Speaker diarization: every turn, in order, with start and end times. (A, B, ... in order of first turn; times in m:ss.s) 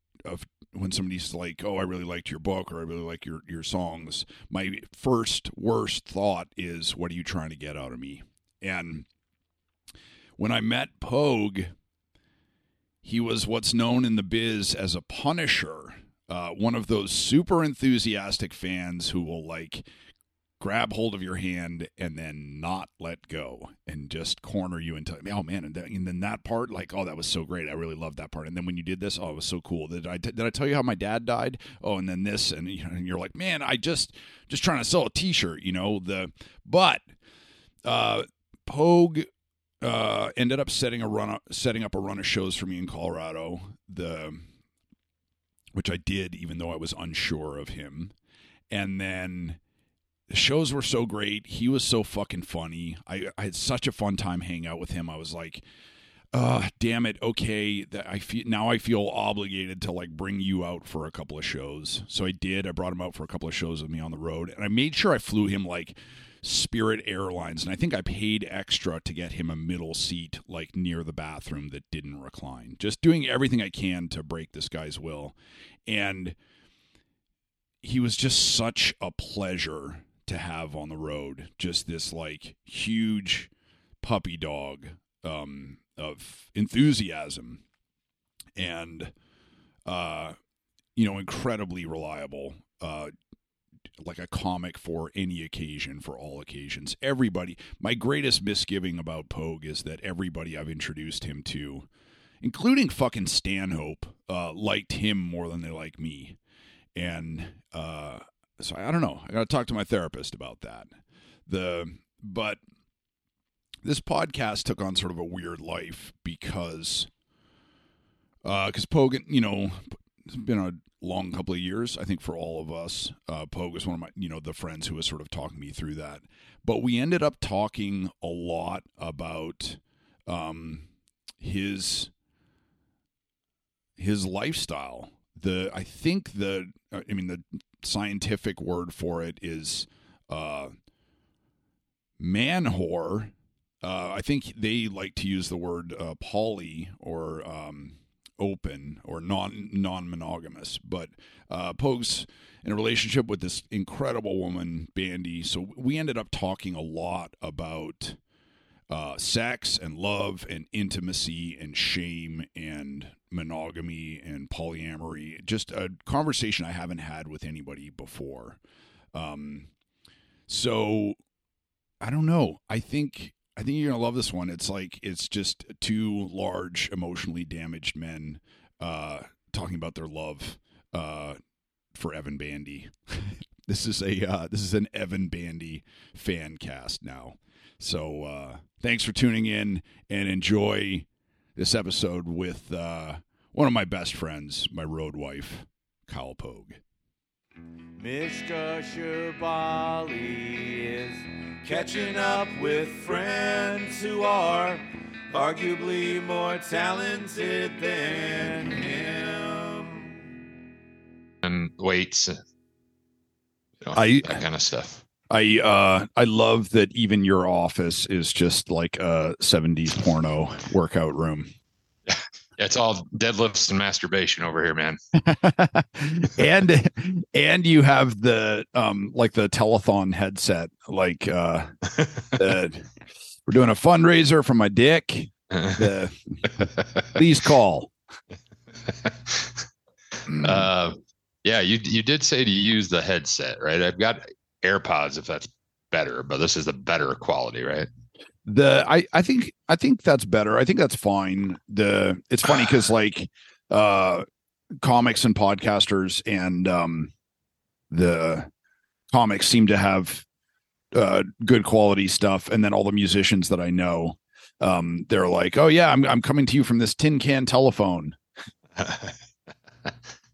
0:00.2-0:09.0 A
0:10.4-0:11.7 A
0:13.0-0:19.8 A
0:20.6-0:37.0 A
0:37.8-0:39.3 A
0:39.8-0:44.5 A
0:45.7-0:48.1 A
0:48.7-0:49.6 A
0:50.3-0:55.6 A
0:56.3-1:15.4 A
1:15.9-1:16.4 A
1:17.8-1:23.5 A
1:24.0-1:27.6 A
1:28.6-1:29.1 A
1:29.8-1:30.4 A
1:31.0-1:33.1 A
1:34.0-1:41.9 A
1:42.4-1:46.4 A
1:46.9-1:50.9 A
1:51.5-1:52.6 A
1:53.8-1:57.1 A
1:58.4-2:10.9 A
2:11.4-2:12.1 A
2:14.0-2:20.7 A
2:22.2-2:38.2 A
2:38.9-2:48.6 A
2:49.1-2:49.7 A
2:50.5-2:51.2 A
2:52.0-3:01.4 A
3:01.9-3:16.8 A
3:18.0-3:30.1 B
3:31.4-3:32.4 C
3:33.8-3:35.0 C
3:33.9-3:34.4 A
3:35.3-3:41.5 A
3:42.1-3:45.0 C
3:45.2-3:52.9 A
3:53.5-3:57.9 A
3:58.8-3:59.6 C
4:00.3-4:00.6 A
4:00.4-4:07.9 C
4:08.4-4:14.2 A
4:14.8-4:17.1 A
4:17.9-4:18.5 A
4:19.1-4:20.2 A
4:20.9-4:28.2 A
4:28.8-4:29.2 C